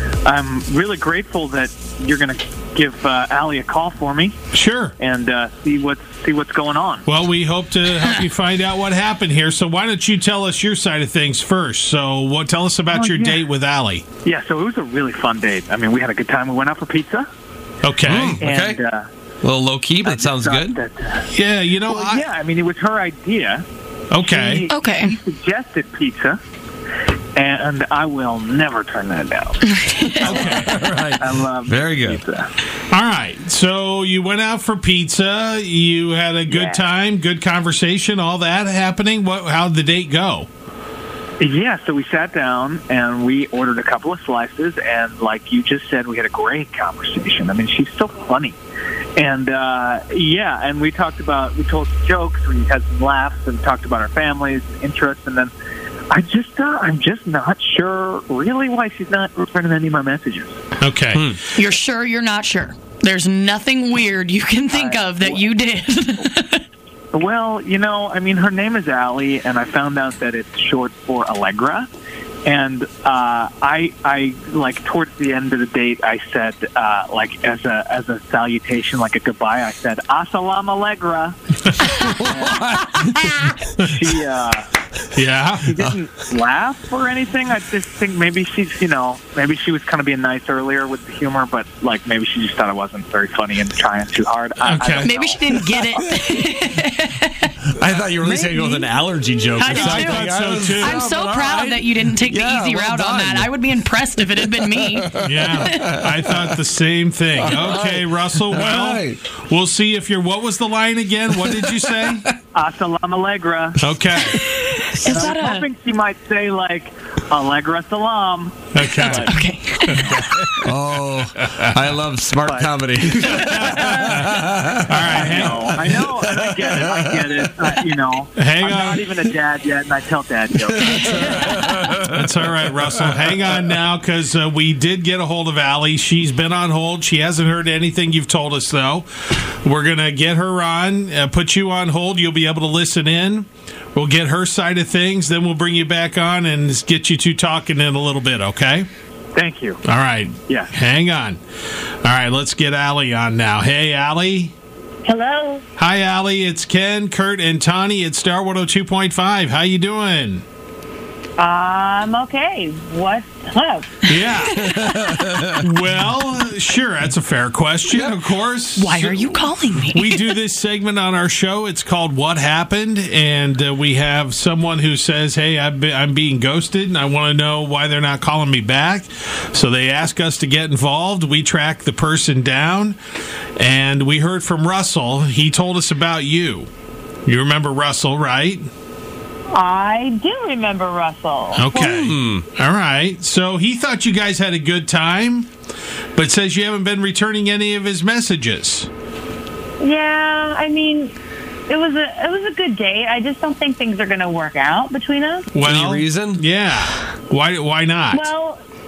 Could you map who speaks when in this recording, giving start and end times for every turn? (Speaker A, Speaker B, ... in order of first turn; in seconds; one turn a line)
Speaker A: 0.2-4.4
Speaker B: 4.5-4.9
Speaker A: 5.0-7.0
Speaker B: 7.0-14.0
Speaker A: 12.9-13.4
Speaker A: 14.2-17.2
Speaker B: 17.8-18.4
Speaker C: 18.1-18.8
Speaker A: 18.4-19.1
Speaker C: 19.4-20.8
Speaker A: 20.0-21.3
Speaker B: 21.3-22.2
Speaker A: 21.9-23.6
Speaker B: 24.1-24.6
Speaker A: 24.2-26.4
Speaker D: 24.7-25.1
Speaker A: 27.4-29.6
Speaker D: 29.7-30.5
Speaker C: 30.1-32.2
Speaker B: 30.2-30.9
Speaker A: 30.2-32.5
Speaker B: 32.9-40.5
Speaker A: 36.5-36.8
Speaker A: 41.4-48.6
Speaker A: 49.1-55.5
Speaker A: 56.1-60.6
Speaker B: 60.8-61.4
Speaker D: 61.5-66.6
Speaker A: 64.7-65.5
Speaker A: 67.1-71.9
Speaker A: 72.4-81.4
Speaker C: 82.0-83.3
Speaker A: 82.1-83.1
Speaker A: 83.8-84.7
Speaker B: 85.1-85.8
Speaker A: 85.6-95.6
Speaker B: 94.6-95.1
Speaker D: 95.0-97.5
Speaker C: 97.7-103.6
Speaker D: 99.5-106.0
Speaker B: 99.6-101.0
Speaker C: 104.4-106.0
Speaker B: 105.2-112.2
Speaker C: 107.4-109.2
Speaker A: 112.5-113.8
Speaker B: 113.8-114.4
Speaker D: 114.7-115.7
Speaker A: 115.0-119.3
Speaker B: 118.7-119.3
Speaker D: 119.0-120.5
Speaker B: 119.8-120.7
Speaker C: 120.6-125.0
Speaker B: 121.4-121.7
Speaker A: 122.4-123.5
Speaker B: 123.2-126.0
Speaker A: 125.1-131.6
Speaker C: 126.3-127.4
Speaker B: 128.3-129.0
Speaker C: 130.8-132.1
Speaker D: 131.0-131.6
Speaker B: 132.0-148.9
Speaker A: 149.3-149.8
Speaker B: 149.8-151.4
Speaker B: 152.0-154.5
Speaker E: 155.1-155.6
Speaker B: 155.8-160.4
Speaker E: 161.4-164.0
Speaker B: 164.1-164.9
Speaker D: 164.2-165.3
Speaker C: 164.8-165.6
Speaker B: 165.6-183.0
Speaker D: 168.8-170.3
Speaker B: 183.6-186.7
Speaker B: 187.2-188.7
Speaker E: 189.5-191.7
Speaker B: 191.5-195.5
Speaker C: 191.8-192.4
Speaker B: 196.1-198.9
Speaker E: 199.8-201.1
Speaker E: 201.7-205.5
Speaker B: 205.5-208.2
Speaker C: 205.6-206.4
Speaker E: 208.1-208.6